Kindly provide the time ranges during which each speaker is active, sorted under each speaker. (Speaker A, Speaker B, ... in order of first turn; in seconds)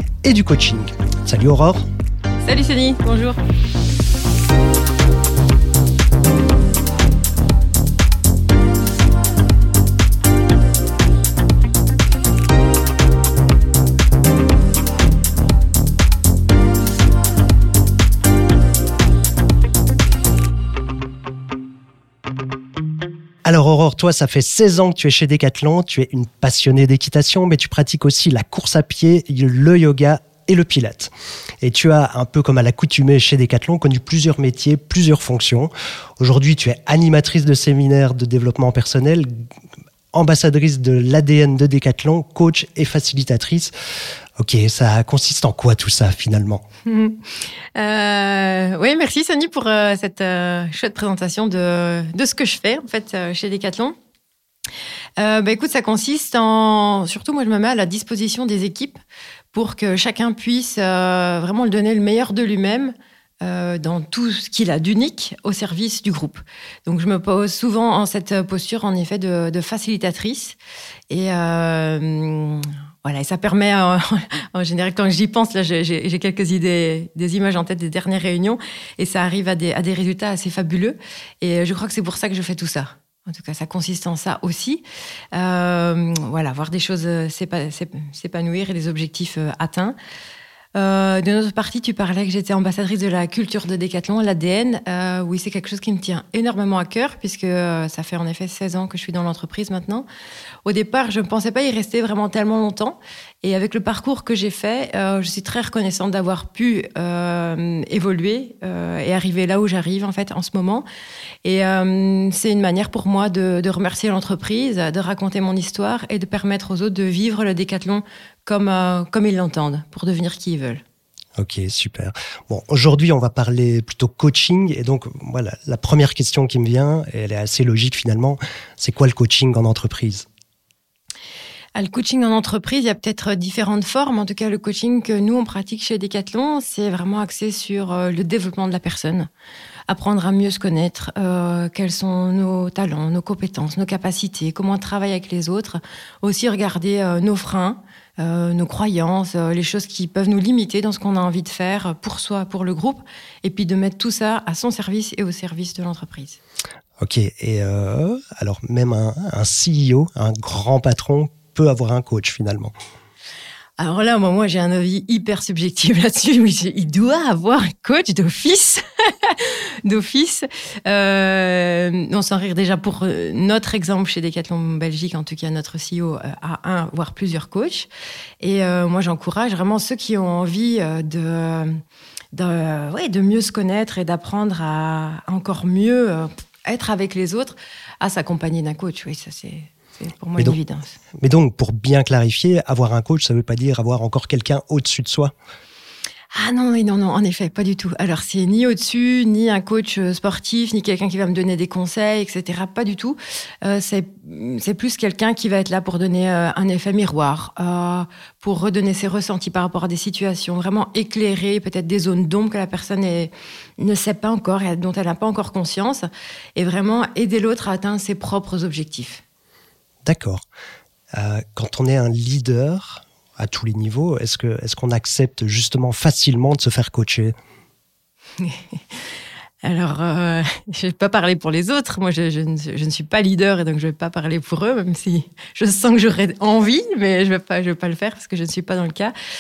Speaker A: 0.2-1.9, 23.4-39.5, 40.1-43.7, 44.4-46.6, 121.4-130.3, 157.0-162.7, 191.2-195.3, 220.1-220.4, 221.1-227.3
Speaker B: 2.4-3.4, 46.9-54.0, 55.2-59.0, 59.5-70.6, 71.1-90.0, 90.8-100.1, 100.7-110.8, 111.4-120.8, 131.8-139.3, 139.9-156.4, 163.8-177.9, 178.4-181.8, 182.3-191.0, 196.3-219.2, 228.4-228.8, 229.6-239.1